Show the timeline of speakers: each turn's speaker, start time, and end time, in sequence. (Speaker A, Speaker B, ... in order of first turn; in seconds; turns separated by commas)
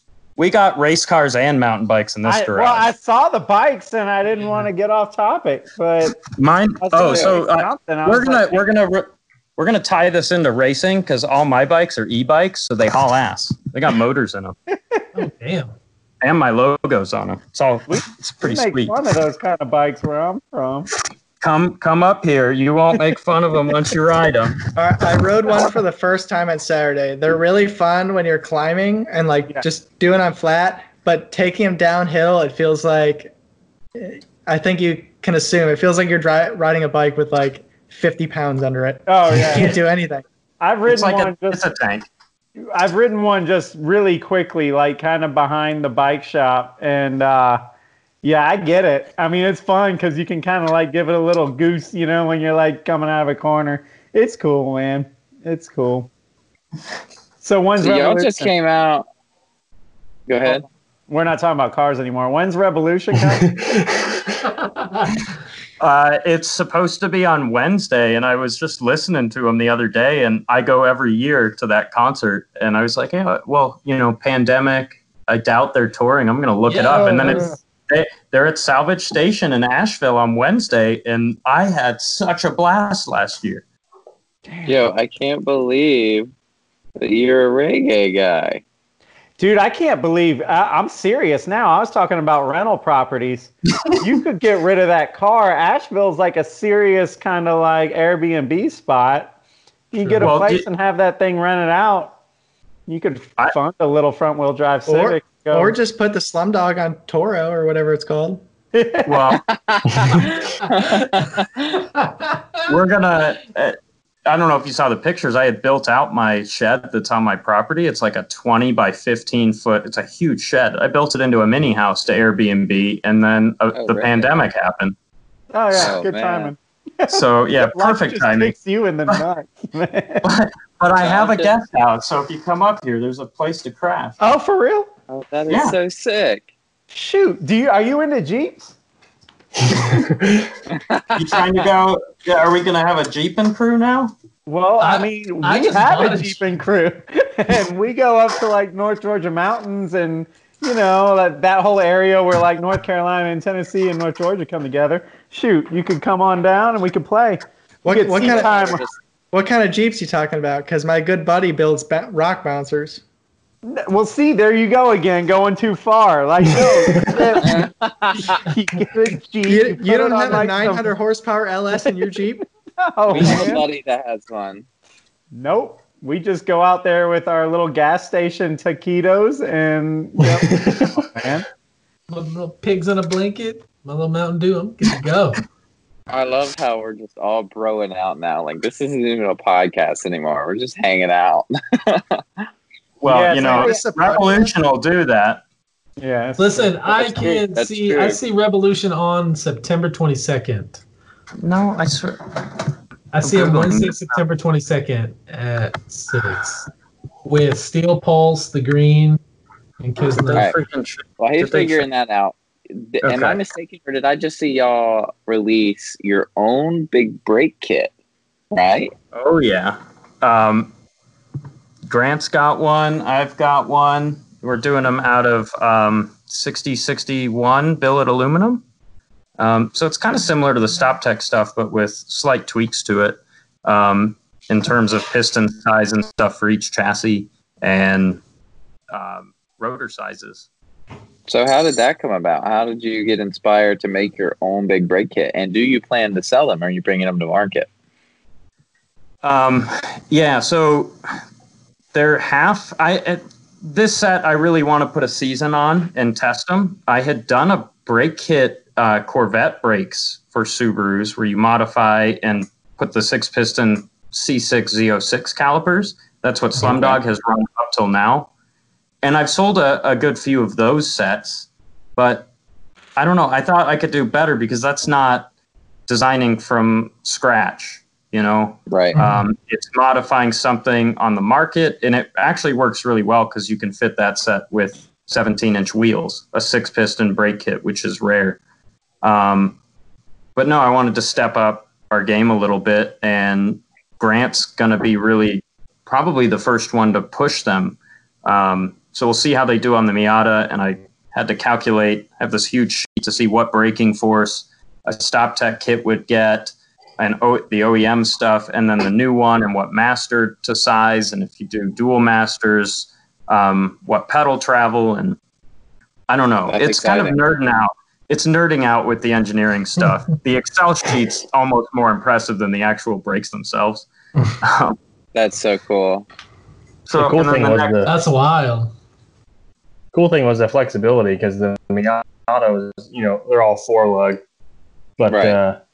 Speaker A: 0.4-2.9, Speaker B: 2.2-6.2, Speaker A: 6.2-14.6, Speaker B: 6.8-8.6, Speaker B: 14.7-15.1, Speaker C: 15.1-15.7, Speaker A: 16.2-18.9, Speaker B: 17.9-20.9, Speaker A: 21.4-24.6, Speaker D: 24.8-33.3, Speaker D: 33.9-40.2, Speaker B: 39.1-39.8, Speaker B: 40.6-41.6, Speaker A: 40.9-42.1, Speaker B: 42.6-47.6, Speaker B: 48.2-56.1, Speaker B: 57.4-58.5, Speaker E: 57.8-59.1, Speaker E: 60.3-60.6, Speaker B: 60.4-63.5, Speaker F: 63.2-64.4, Speaker A: 65.8-83.6, Speaker C: 76.7-77.4, Speaker B: 76.9-77.6, Speaker E: 84.6-86.3, Speaker E: 87.0-88.6, Speaker B: 89.4-99.3, Speaker B: 99.9-102.1, Speaker A: 100.0-100.7, Speaker B: 102.9-105.8, Speaker D: 104.9-108.4, Speaker B: 108.7-109.2, Speaker A: 109.0-109.4, Speaker E: 109.3-111.8, Speaker A: 112.7-125.0, Speaker E: 123.7-124.3, Speaker B: 125.5-130.3, Speaker E: 125.8-126.5, Speaker A: 127.1-128.5, Speaker A: 130.2-134.2, Speaker E: 130.9-131.5, Speaker B: 134.2-134.9, Speaker E: 135.1-136.4, Speaker A: 135.5-135.8, Speaker B: 136.9-138.7, Speaker F: 139.9-140.5, Speaker E: 140.7-141.7, Speaker A: 141.1-144.1, Speaker B: 144.5-158.8, Speaker C: 144.8-146.4, Speaker D: 157.8-158.5, Speaker E: 158.2-159.0, Speaker D: 159.3-163.0, Speaker B: 163.6-167.7, Speaker F: 166.9-167.2, Speaker E: 167.4-168.4, Speaker B: 168.4-170.9, Speaker D: 169.4-172.4, Speaker B: 172.8-173.6, Speaker E: 173.1-174.6, Speaker B: 175.3-181.4, Speaker F: 180.5-181.1, Speaker C: 182.1-185.4, Speaker E: 186.1-192.2, Speaker A: 193.0-195.4, Speaker B: 193.0-193.8, Speaker D: 193.4-194.5, Speaker B: 196.0-197.3, Speaker C: 196.4-200.8, Speaker E: 196.9-198.2, Speaker A: 201.4-202.7, Speaker C: 203.1-206.7, Speaker A: 203.2-204.2, Speaker C: 207.2-209.2, Speaker C: 209.8-210.4, Speaker A: 210.1-211.8, Speaker E: 210.3-210.6, Speaker E: 211.2-217.9, Speaker A: 213.0-213.4, Speaker E: 218.5-218.9, Speaker A: 219.1-220.7, Speaker A: 221.9-228.6, Speaker A: 229.4-238.2, Speaker A: 238.9-240.5, Speaker E: 241.3-247.7, Speaker A: 249.2-250.9, Speaker A: 251.9-268.3, Speaker C: 266.6-266.9, Speaker A: 269.0-272.3, Speaker A: 273.0-275.3, Speaker A: 275.9-288.4, Speaker E: 278.7-278.9, Speaker C: 278.9-279.2, Speaker A: 289.0-289.6, Speaker A: 290.4-315.2, Speaker A: 316.1-323.9, Speaker E: 316.5-317.2, Speaker A: 324.4-324.8, Speaker E: 325.1-326.1, Speaker A: 326.9-327.8, Speaker F: 326.9-327.9, Speaker C: 327.9-328.7, Speaker F: 329.9-334.2, Speaker F: 335.0-335.6, Speaker E: 335.1-335.4